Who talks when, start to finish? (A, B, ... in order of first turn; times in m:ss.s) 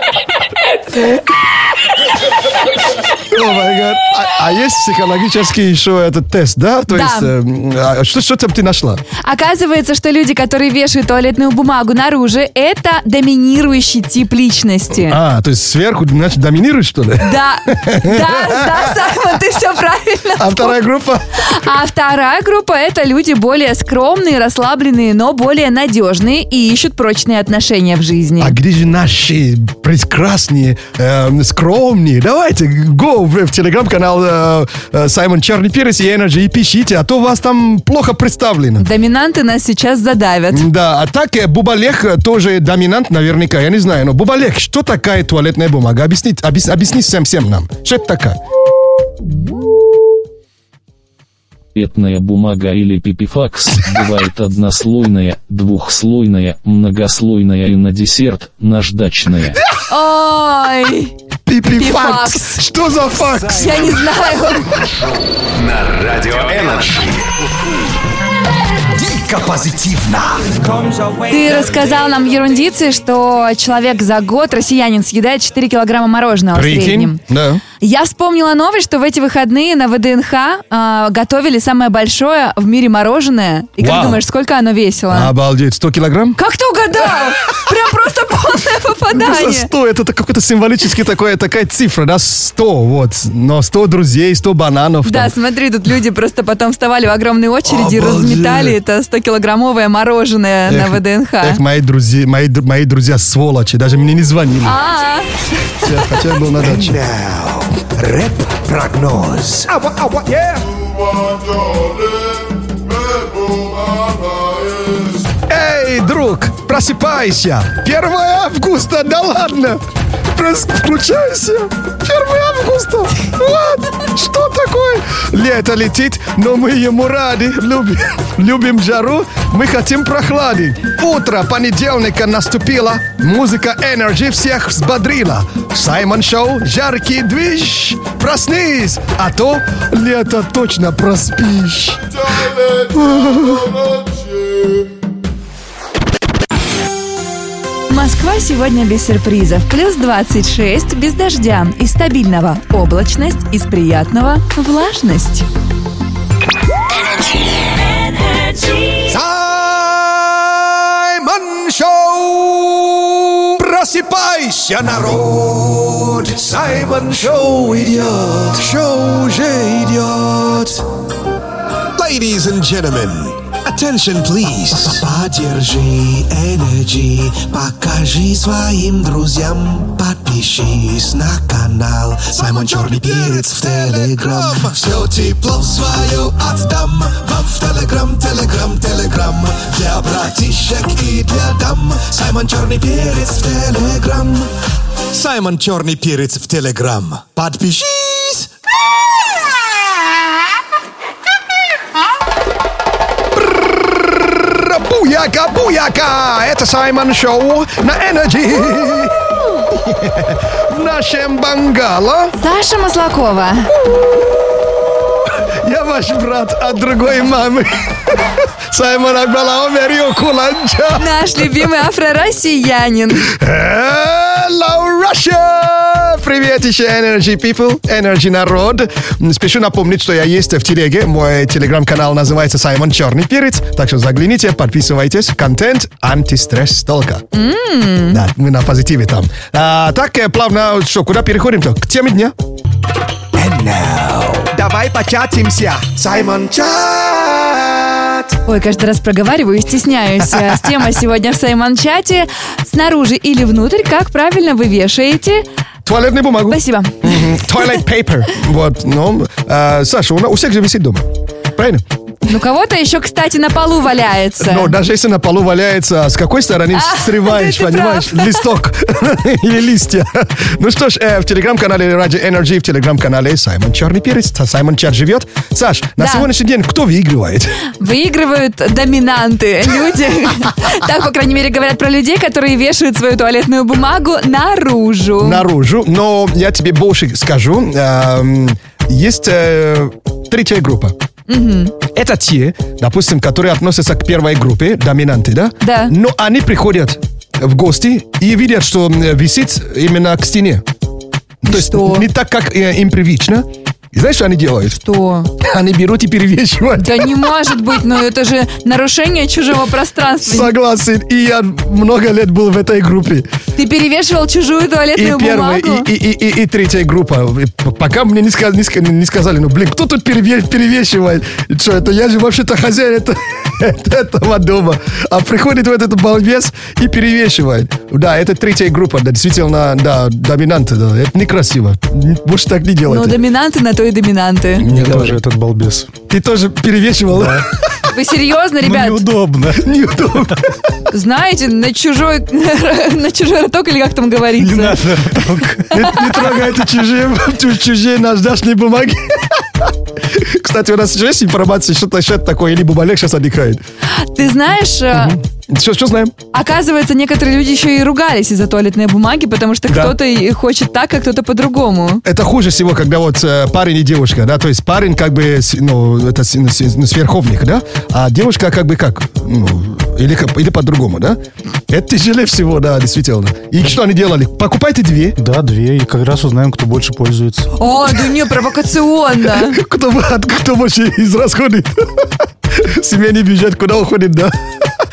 0:03.2-0:09.0 A
0:06.9-0:07.3 B
0:09.2-0:15.2 B
0:14.9-0:19.4 A
0:17.2-0:20.8 B
0:20.4-0:21.6 A
0:21.4-0:28.6 B
0:28.4-0:38.9 A
0:38.8-0:40.7 B
0:40.5-0:48.4 A
0:51.8-0:59.6 C
0:59.9-1:01.1 B
1:01.5-1:04.0 A
1:01.6-1:02.6 B
1:03.5-1:04.7 B
1:04.7-1:07.3 D
1:08.9-1:10.5 E
1:11.3-1:17.2 B
1:16.5-1:17.6 A
1:17.8-1:25.3 B
1:23.8-1:24.2 A
1:25.1-1:26.4 A
1:26.4-1:29.7 B
1:29.1-1:35.3 A
1:35.0-1:41.6 B
1:37.6-1:38.8 A
1:40.7-1:44.8 A
1:44.6-1:45.9 B
1:45.8-1:47.0 A
1:46.6-1:49.7 E
1:49.7-1:50.6 F
1:55.5-1:59.8 A
2:00.3-2:24.0 A
2:27.9-2:35.5 B
2:39.1-2:40.1 E
2:41.1-2:42.8 E
2:43.4-2:50.8 E
2:52.0-3:14.5 E
3:15.1-3:18.5 E
3:23.4-3:32.4 A
3:32.4-3:33.7 B
3:35.6-3:38.1 A
3:38.7-3:41.1 A
3:41.0-3:43.3 B
3:43.2-3:57.2 A
3:57.3-3:58.2 B
3:58.1-4:02.3 A
4:03.4-4:04.5 E
4:04.5-4:08.2 F
4:08.5-4:15.5 B
4:15.9-4:21.8 A
4:16.5-4:17.7 B
4:22.2-4:24.8 B
4:24.4-4:37.6 A
4:26.7-4:28.4 B
4:36.0-4:36.3 B
4:37.7-4:45.4 B
4:45.2-4:51.0 A
4:51.3-4:51.8 B
4:51.9-5:00.6 A
4:55.6-4:55.9 B
5:01.4-5:04.8 A
5:01.5-5:02.1 B
5:04.8-5:05.3 B
5:05.4-5:07.3 A
5:06.8-5:10.5 B
5:10.2-5:13.3 A
5:13.6-5:15.9 B
5:15.0-5:33.2 A
5:32.9-5:34.7 B
5:34.6-5:35.2 A
5:34.7-5:35.9 G
5:36.1-5:37.5 A
5:37.9-5:39.0 B
5:38.6-5:39.7 G
5:39.6-5:40.4 A
5:40.9-5:44.9 B
5:44.4-5:45.6 G
5:45.6-5:53.6 A
5:45.8-5:46.1 B
5:53.9-5:55.2 B
5:54.9-5:56.2 A
5:56.3-6:02.0 B
5:59.7-6:00.0 A
6:02.0-6:15.2 A
6:15.2-6:17.5 G
6:17.6-6:19.6 B
6:19.3-6:21.7 A
6:22.5-6:24.3 A